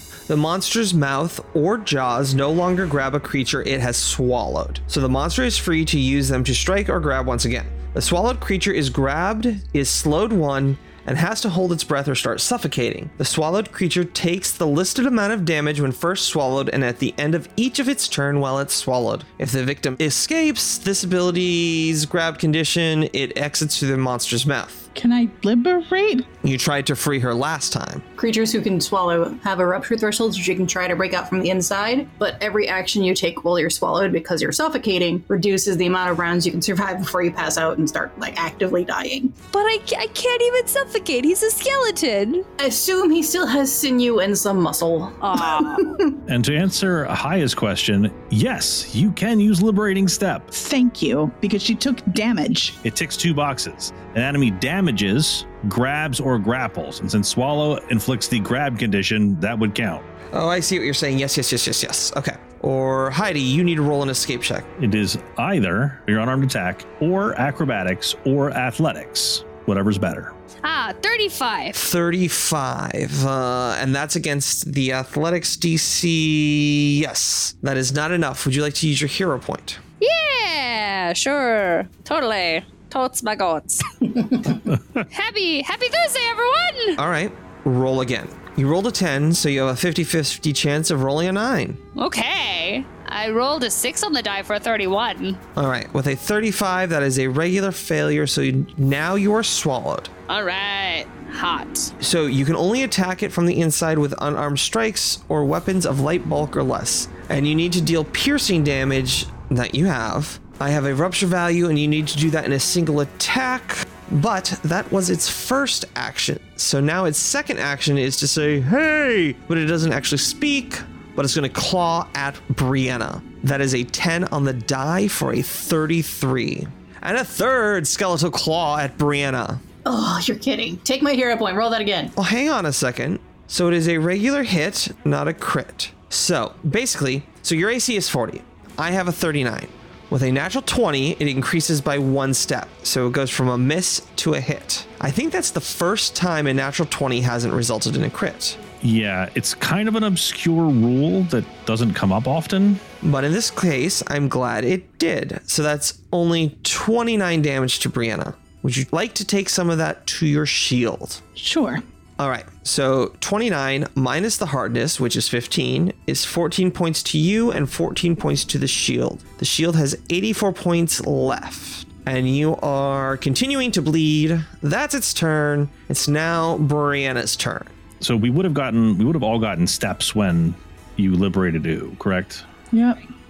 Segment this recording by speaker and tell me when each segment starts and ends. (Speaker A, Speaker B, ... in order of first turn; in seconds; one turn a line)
Speaker A: 0.3-24.9
Speaker B: 24.9-26.3
Speaker A: 26.4-28.0
Speaker C: 28.2-39.3
Speaker D: 39.5-42.5
Speaker C: 42.6-46.1
Speaker D: 45.2-45.9
Speaker E: 46.3-50.5
Speaker B: 50.5-52.8
Speaker E: 52.8-60.0
Speaker A: 60.3-64.7
Speaker E: 64.8-70.3
Speaker D: 70.6-71.8
Speaker A: 71.7-79.8
Speaker D: 80.0-83.9
Speaker D: 85.1-87.0
Speaker A: 87.0-91.8
Speaker D: 92.0-95.4
Speaker A: 95.5-100.1
Speaker D: 100.3-101.9
Speaker A: 102.0-129.6
Speaker C: 129.8-132.1
Speaker A: 132.2-148.6
Speaker E: 148.8-152.8
Speaker A: 153.0-161.2
Speaker B: 161.3-161.8
Speaker A: 162.2-177.7
Speaker E: 178.0-182.4
Speaker B: 182.7-183.0